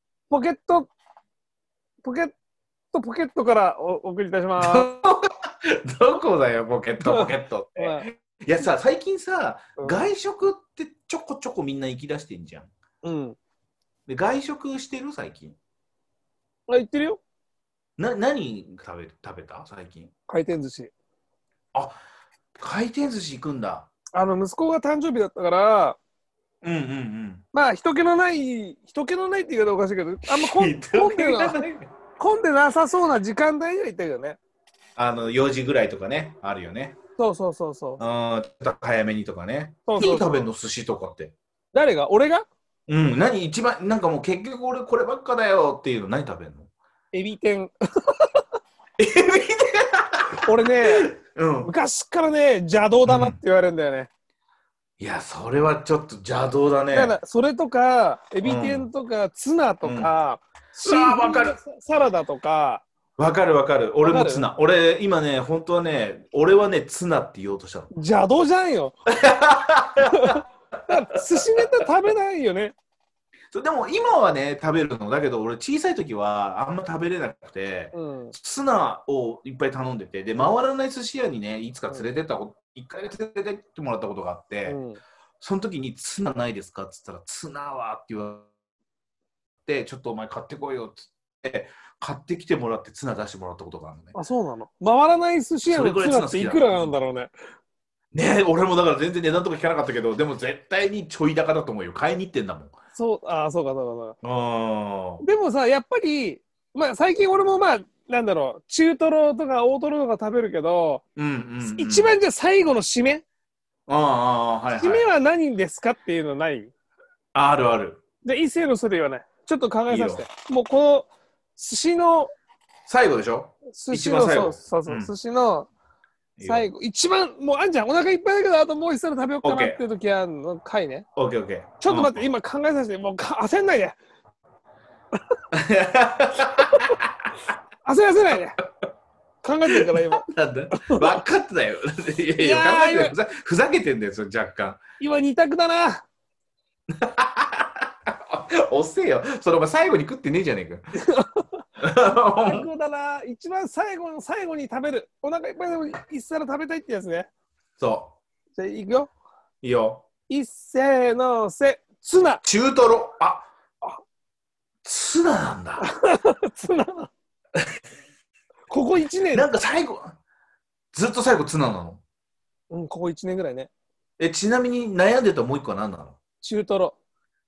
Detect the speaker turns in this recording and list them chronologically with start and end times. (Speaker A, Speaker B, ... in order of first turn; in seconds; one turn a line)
Speaker A: 0.3-0.9
Speaker A: 2.0-2.3
Speaker A: 2.9-4.9
Speaker B: 4.6-12.7
Speaker A: 7.0-8.1
Speaker A: 9.8-10.0
Speaker A: 13.0-13.4
Speaker B: 14.1-15.6
Speaker A: 16.7-17.2
Speaker B: 18.0-20.1
Speaker A: 20.3-20.9
Speaker B: 22.6-23.9
Speaker A: 24.1-26.0
Speaker B: 26.6-27.4
Speaker A: 27.5-31.6
Speaker B: 30.3-31.9
Speaker A: 32.2-34.4
Speaker B: 35.0-37.0
Speaker A: 37.2-38.0
Speaker B: 38.0-41.3
Speaker A: 39.9-40.5
Speaker A: 41.7-42.5
Speaker B: 42.9-46.7
Speaker A: 47.1-48.4
Speaker B: 49.0-51.7
Speaker A: 50.4-51.1
Speaker A: 51.6-54.1
Speaker B: 53.0-53.4
Speaker B: 55.0-57.2
Speaker A: 56.9-62.8
Speaker B: 58.4-58.9
Speaker B: 59.8-60.1
Speaker B: 60.8-61.6
Speaker B: 63.2-67.9
Speaker A: 64.0-64.5
Speaker A: 67.9-69.0
Speaker B: 69.1-70.4
Speaker A: 70.1-72.7
Speaker B: 73.5-84.8
Speaker A: 77.9-78.3
Speaker A: 84.7-85.0
Speaker B: 85.4-88.5
Speaker B: 89.7-94.2
Speaker A: 94.1-97.3
Speaker B: 95.7-96.9
Speaker B: 98.1-102.7
Speaker A: 102.9-104.2
Speaker B: 104.2-105.2
Speaker A: 105.2-111.0
Speaker B: 111.2-112.1
Speaker A: 111.6-113.2
Speaker B: 113.9-115.1
Speaker A: 114.7-116.7
Speaker B: 117.3-118.0
Speaker A: 118.2-122.3
Speaker B: 119.9-120.2
Speaker B: 122.9-125.1
Speaker A: 123.7-125.7
Speaker B: 126.4-126.7
Speaker A: 126.4-131.0
Speaker B: 129.4-129.8
Speaker B: 131.2-132.2
Speaker A: 131.8-134.0
Speaker B: 135.5-137.1
Speaker A: 137.8-138.6
Speaker A: 139.4-141.1
Speaker B: 139.7-144.8
Speaker A: 142.4-143.2
Speaker A: 145.0-146.0
Speaker B: 146.9-151.0
Speaker A: 151.0-151.6
Speaker B: 151.8-152.7
Speaker A: 152.4-157.3
Speaker B: 157.8-158.1
Speaker A: 158.6-159.1
Speaker B: 159.6-160.0
Speaker A: 160.3-162.4
Speaker B: 162.4-163.5
Speaker B: 164.8-165.9
Speaker A: 165.8-167.1
Speaker A: 168.7-169.5
Speaker B: 169.3-170.2
Speaker B: 170.9-172.0
Speaker A: 172.7-173.7
Speaker B: 174.2-176.2
Speaker A: 176.4-176.9